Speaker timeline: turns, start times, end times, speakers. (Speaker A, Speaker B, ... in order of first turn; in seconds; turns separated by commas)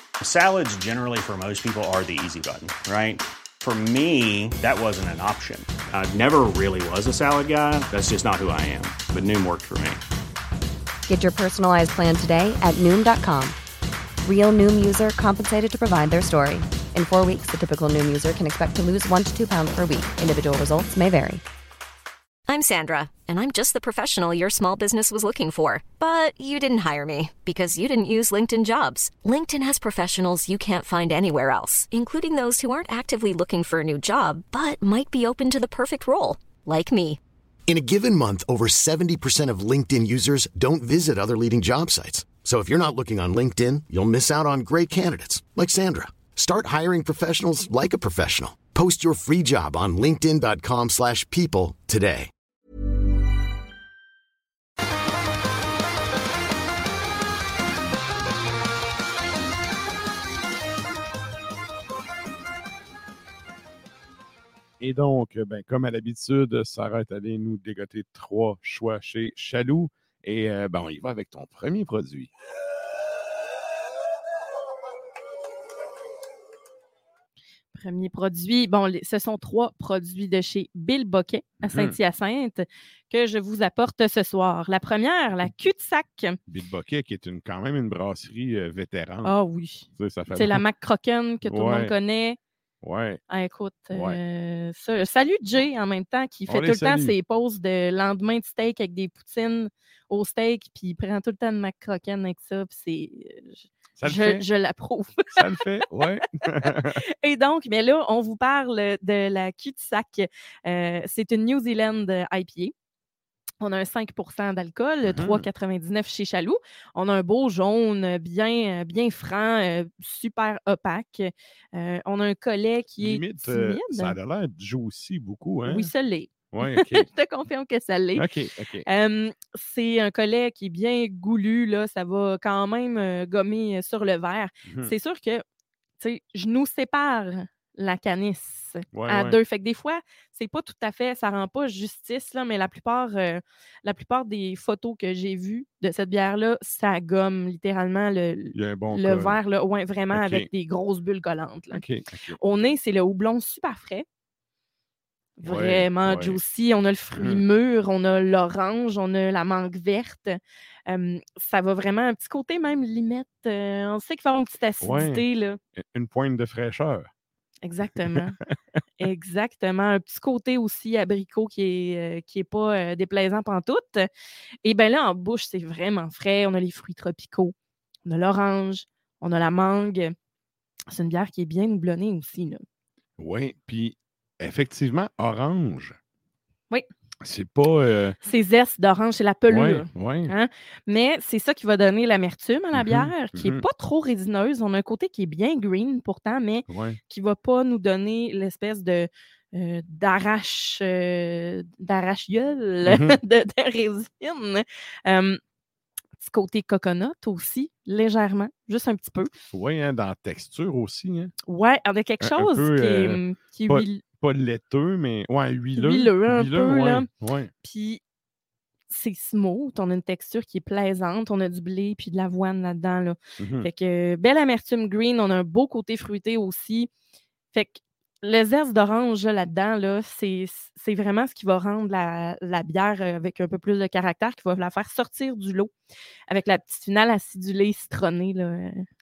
Speaker A: 0.2-10.0, Speaker B: 11.1-13.6, Speaker B: 14.2-21.4, Speaker C: 22.5-37.2, Speaker D: 37.7-52.3, Speaker E: 64.8-72.3, Speaker F: 77.7-86.4, Speaker E: 81.6-82.0, Speaker E: 86.5-89.3, Speaker F: 89.2-92.4, Speaker E: 89.9-90.6, Speaker E: 91.4-91.9, Speaker E: 92.8-93.2, Speaker F: 93.3-105.3, Speaker E: 93.9-94.2, Speaker E: 96.5-97.2, Speaker E: 104.0-104.5, Speaker E: 105.3-107.0, Speaker F: 107.2-112.7, Speaker F: 113.6-124.2, Speaker E: 115.0-115.5, Speaker E: 123.0-125.9, Speaker F: 125.7-128.2, Speaker E: 126.5-127.1, Speaker E: 128.1-128.8, Speaker F: 128.8-135.4, Speaker E: 134.7-134.9, Speaker F: 136.0-151.8, Speaker E: 138.9-139.4, Speaker E: 148.5-149.4, Speaker E: 150.1-150.5, Speaker E: 151.7-152.4, Speaker F: 152.4-154.1, Speaker F: 155.4-165.6, Speaker E: 155.4-156.4, Speaker E: 157.2-157.4, Speaker E: 164.8-165.2, Speaker E: 165.8-167.1, Speaker F: 167.6-168.4, Speaker F: 169.0-174.1, Speaker F: 174.6-177.5, Speaker F: 178.1-180.1, Speaker F: 180.9-182.6, Speaker E: 183.2-186.0, Speaker E: 187.2-188.2, Speaker F: 188.2-205.4, Speaker E: 189.5-190.3, Speaker E: 192.7-193.7, Speaker E: 196.7-197.0, Speaker E: 202.8-203.2, Speaker F: 206.2-209.3, Speaker E: 209.5-211.3, Speaker F: 211.5-214.0, Speaker E: 212.2-217.5, Speaker F: 215.8-217.1, Speaker F: 217.6-218.0, Speaker F: 218.9-226.9, Speaker E: 223.4-223.7, Speaker F: 227.5-235.7, Speaker F: 236.3-238.8